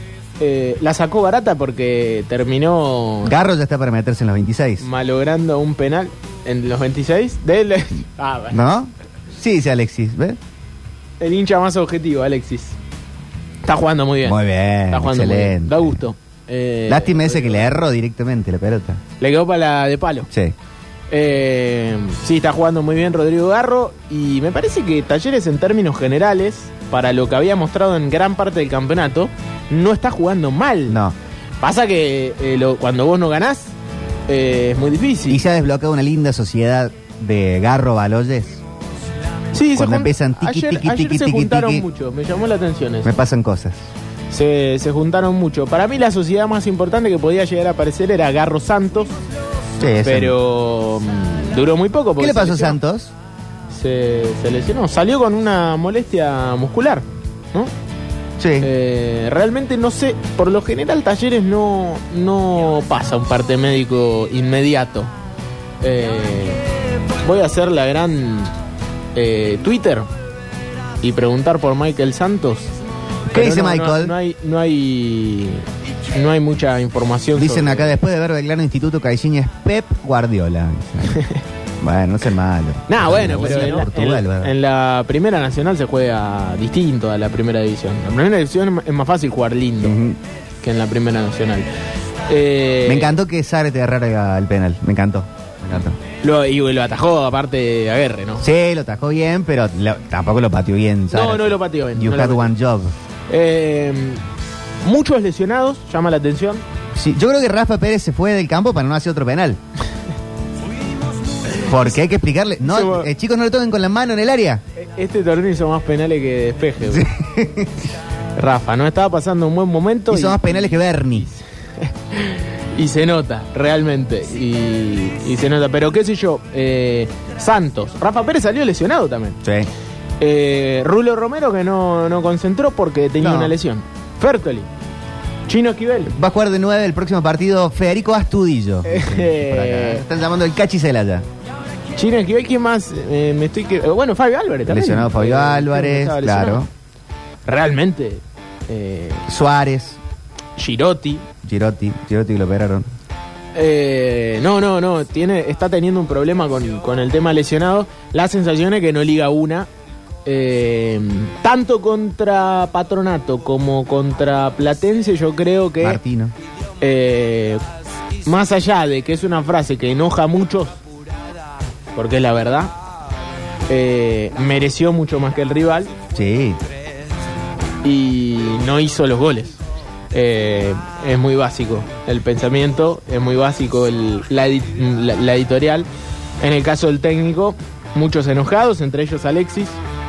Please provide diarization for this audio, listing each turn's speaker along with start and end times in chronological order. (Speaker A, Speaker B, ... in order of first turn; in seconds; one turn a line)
Speaker A: 0.4-3.4
Speaker B: 3.2-4.8
Speaker A: 4.8-8.6
Speaker B: 8.5-10.4
Speaker A: 11.2-12.8
Speaker A: 13.6-14.4
Speaker B: 14.2-16.0
Speaker A: 14.9-17.8
Speaker B: 16.9-19.0
Speaker A: 19.2-20.3
Speaker B: 20.3-20.5
Speaker A: 21.1-31.0
Speaker B: 30.9-31.1
Speaker A: 31.6-33.7
Speaker A: 34.3-35.4
Speaker B: 35.3-38.6
Speaker A: 39.5-43.1
Speaker B: 39.7-41.9
Speaker B: 43.0-43.9
Speaker A: 44.3-49.1
Speaker B: 49.8-50.4
Speaker A: 50.0-52.8
Speaker B: 52.2-53.1
Speaker A: 53.7-57.7
Speaker B: 58.4-58.7
Speaker A: 58.6-65.1
Speaker A: 65.8-66.6
Speaker A: 67.2-68.5
Speaker A: 69.1-70.1
Speaker A: 71.0-72.7
Speaker B: 73.3-74.1
Speaker A: 73.3-78.0
Speaker B: 77.3-81.2
Speaker A: 81.1-81.4
Speaker B: 81.8-84.5
Speaker A: 82.9-90.0
Speaker B: 89.8-90.2
Speaker A: 90.6-91.7
Speaker A: 92.3-93.2
Speaker B: 92.8-96.0
Speaker A: 96.2-98.4
Speaker B: 98.4-102.9
Speaker A: 101.1-102.5
Speaker A: 103.3-104.2
Speaker A: 104.8-106.6
Speaker B: 107.0-109.6
Speaker B: 111.6-114.6
Speaker A: 112.6-113.1
Speaker A: 114.8-117.0
Speaker B: 116.8-117.9
Speaker A: 118.3-129.4
Speaker B: 120.1-121.2
Speaker B: 129.4-129.7
Speaker A: 130.2-134.7
Speaker B: 133.2-133.5
Speaker A: 135.5-136.1
Speaker B: 136.1-141.2
Speaker A: 138.8-140.0
Speaker A: 141.9-146.7
Speaker B: 144.7-146.7
Speaker A: 147.4-149.2
Speaker B: 149.3-150.0
Speaker A: 150.6-151.2
Speaker B: 151.4-152.9
Speaker A: 153.5-159.7
Speaker A: 160.2-166.0
Speaker B: 165.8-166.3
Speaker A: 166.8-167.6
Speaker A: 168.2-170.8
Speaker A: 171.9-172.7
Speaker A: 173.7-175.9
Speaker B: 176.1-176.6
Speaker A: 177.8-179.6
Speaker A: 180.1-185.9
Speaker A: 186.4-189.8